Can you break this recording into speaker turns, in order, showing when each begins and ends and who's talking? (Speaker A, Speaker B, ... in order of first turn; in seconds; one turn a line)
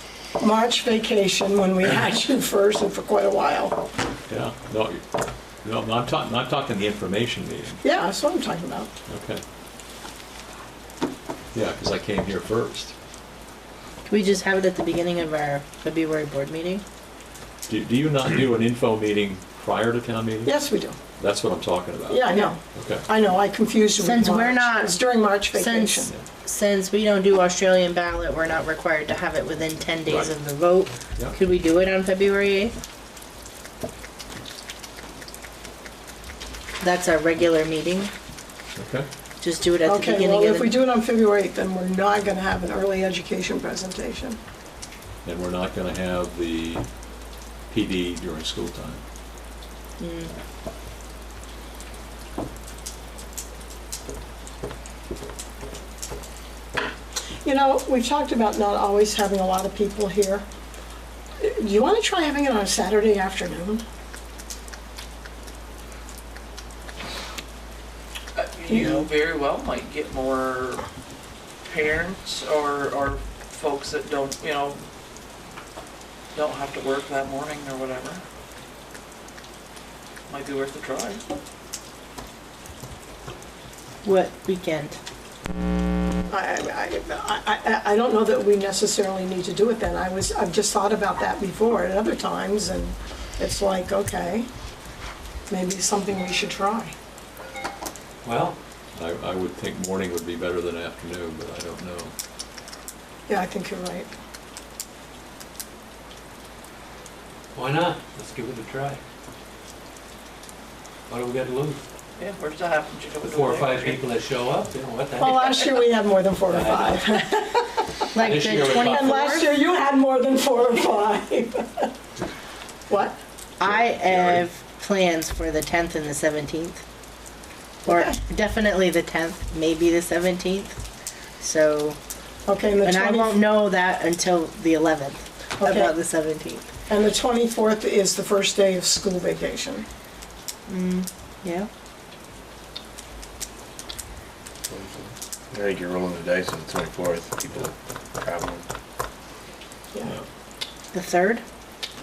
Speaker A: 0.4-3.8
Speaker B: 4.3-5.0
Speaker B: 5.6-7.8
Speaker A: 7.8-8.9
Speaker B: 9.1-9.4
Speaker B: 11.5-12.9
Speaker C: 14.1-16.8
Speaker B: 17.7-20.6
Speaker A: 20.4-21.0
Speaker B: 21.2-23.1
Speaker A: 22.1-26.1
Speaker C: 24.0-32.7
Speaker B: 30.1-30.4
Speaker C: 36.8-38.1
Speaker B: 38.8-39.1
Speaker C: 39.4-40.8
Speaker A: 39.9-44.4
Speaker B: 45.2-46.8
Speaker B: 47.7-49.0
Speaker C: 50.0-50.3
Speaker A: 57.4-60.5
Speaker A: 61.4-63.8
Speaker D: 68.4-70.8
Speaker A: 68.7-69.1
Speaker D: 71.7-74.8
Speaker D: 76.3-78.2
Speaker D: 80.3-81.2
Speaker C: 84.0-85.0
Speaker A: 86.3-94.5
Speaker A: 95.5-96.9
Speaker E: 98.2-98.6
Speaker B: 99.0-102.1
Speaker A: 103.3-104.1
Speaker E: 107.5-109.0
Speaker E: 111.1-111.8
Speaker D: 112.2-114.0
Speaker E: 113.2-115.8
Speaker A: 115.2-118.1
Speaker E: 116.5-117.2
Speaker E: 118.1-119.2
Speaker C: 118.1-119.6
Speaker A: 118.7-121.9
Speaker A: 122.9-123.2
Speaker C: 123.6-126.8
Speaker B: 123.7-124.4
Speaker C: 127.8-130.8
Speaker A: 127.9-128.1
Speaker C: 131.4-132.0
Speaker A: 132.5-133.4
Speaker C: 132.8-136.7
Speaker A: 135.6-135.9
Speaker A: 136.9-139.8
Speaker C: 140.7-141.7
Speaker F: 144.7-148.7
Speaker C: 150.9-151.4